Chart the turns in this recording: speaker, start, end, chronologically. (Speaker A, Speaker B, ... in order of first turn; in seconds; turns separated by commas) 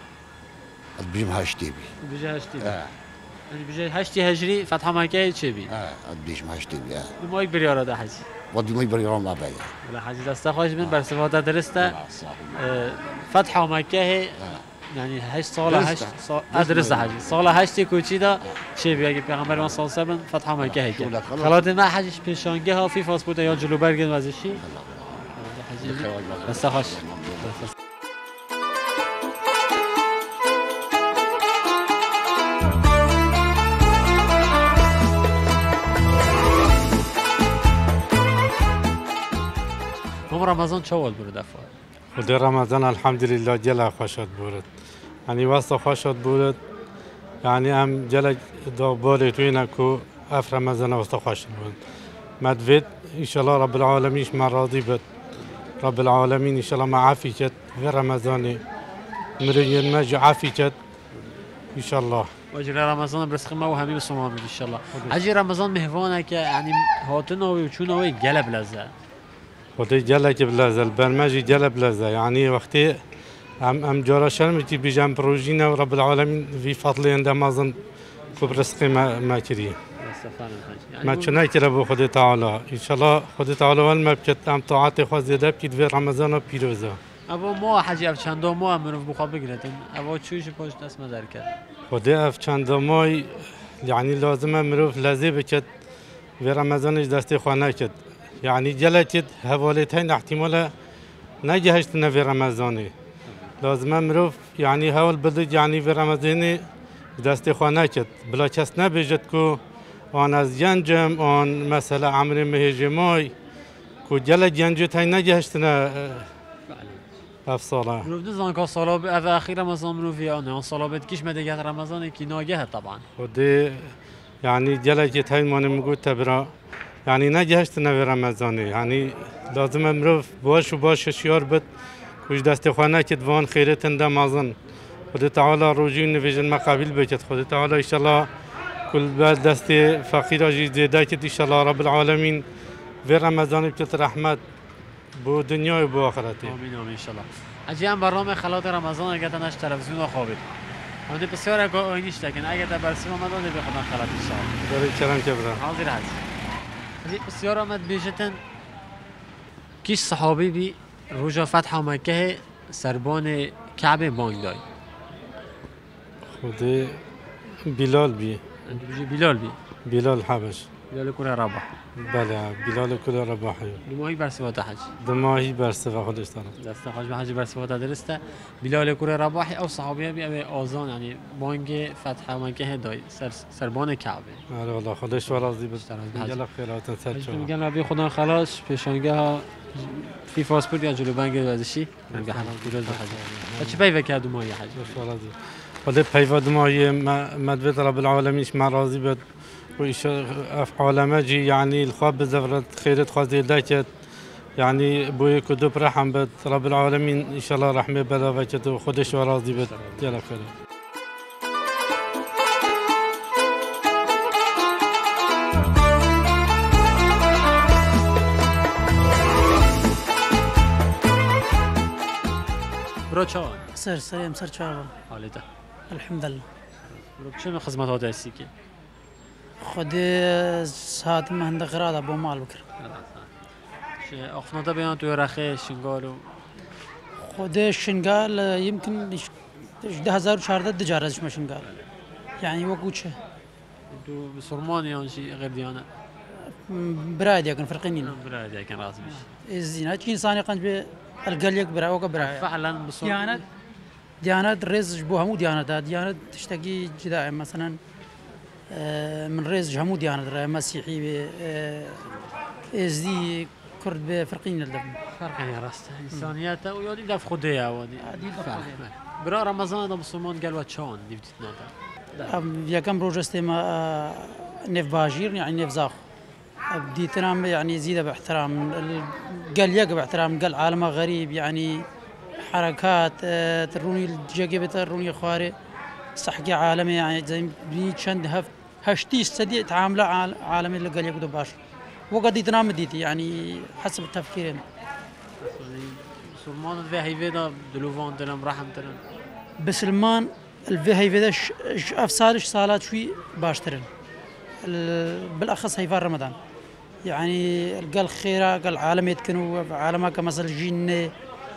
Speaker A: 1.0-1.9, Speaker B: 2.0-2.8, Speaker A: 2.6-2.9, Speaker B: 3.5-5.7, Speaker A: 5.7-7.1, Speaker B: 7.2-8.2, Speaker A: 8.5-9.7, Speaker B: 9.8-12.0, Speaker A: 10.8-11.0, Speaker A: 11.8-12.6, Speaker B: 12.5-14.4, Speaker B: 14.9-24.6, Speaker A: 15.6-17.7, Speaker A: 19.4-19.8, Speaker A: 20.6-21.7, Speaker A: 24.6-25.3, Speaker B: 25.3-27.7, Speaker A: 25.8-27.7, Speaker B: 40.3-41.7, Speaker C: 42.1-44.7, Speaker C: 45.3-46.6, Speaker C: 47.4-51.8, Speaker C: 52.4-55.0, Speaker C: 55.8-58.6, Speaker C: 59.4-60.8, Speaker C: 61.7-62.3, Speaker B: 62.5-68.9, Speaker C: 69.8-73.0, Speaker C: 73.6-77.8, Speaker C: 78.3-79.8, Speaker B: 80.0-81.4, Speaker C: 81.0-87.0, Speaker B: 87.3-91.5, Speaker C: 91.9-95.7, Speaker C: 96.4-100.7, Speaker C: 101.4-102.9, Speaker B: 103.3-103.5, Speaker C: 103.6-106.7, Speaker C: 107.2-109.6, Speaker C: 110.1-113.3, Speaker C: 114.0-116.3, Speaker B: 116.7-117.0, Speaker C: 117.5-118.1, Speaker B: 118.0-123.0, Speaker C: 123.2-126.5, Speaker C: 127.0-131.7, Speaker C: 132.2-134.6, Speaker C: 135.1-138.3, Speaker C: 138.9-142.4, Speaker C: 143.0-144.4, Speaker C: 145.2-146.6, Speaker B: 146.4-154.6, Speaker C: 154.6-155.6, Speaker B: 155.5-156.2, Speaker B: 157.0-158.4, Speaker B: 159.8-164.6, Speaker C: 166.2-167.0, Speaker C: 167.6-168.4, Speaker B: 168.7-169.6, Speaker C: 169.8-170.7, Speaker B: 170.9-171.8, Speaker C: 171.9-173.8, Speaker B: 173.8-174.9, Speaker C: 175.0-176.5, Speaker B: 176.6-184.4, Speaker C: 184.5-187.5, Speaker B: 185.2-186.4, Speaker B: 187.1-195.0, Speaker C: 192.1-193.8, Speaker C: 194.8-199.2, Speaker C: 199.8-203.9, Speaker C: 204.6-210.5, Speaker B: 209.1-210.2, Speaker B: 223.1-223.7, Speaker D: 223.7-224.9, Speaker B: 225.1-225.4, Speaker D: 225.9-226.5, Speaker B: 226.9-228.5, Speaker D: 229.6-232.6, Speaker B: 232.8-233.3, Speaker B: 234.0-236.5, Speaker D: 237.2-241.6, Speaker D: 242.4-243.2, Speaker B: 243.9-245.9, Speaker D: 246.5-248.2, Speaker B: 248.0-249.3, Speaker D: 249.1-252.5, Speaker B: 252.2-253.4, Speaker D: 253.0-253.4, Speaker D: 254.2-257.8, Speaker D: 258.7-262.0, Speaker B: 262.0-262.3, Speaker D: 262.7-265.0, Speaker B: 265.1-272.3, Speaker D: 268.0-268.8, Speaker D: 272.2-276.0, Speaker D: 276.7-281.9, Speaker D: 282.4-285.5, Speaker D: 286.1-291.6, Speaker D: 292.1-294.6, Speaker B: 295.4-299.0, Speaker D: 299.6-303.9, Speaker D: 304.6-306.4, Speaker D: 307.0-311.1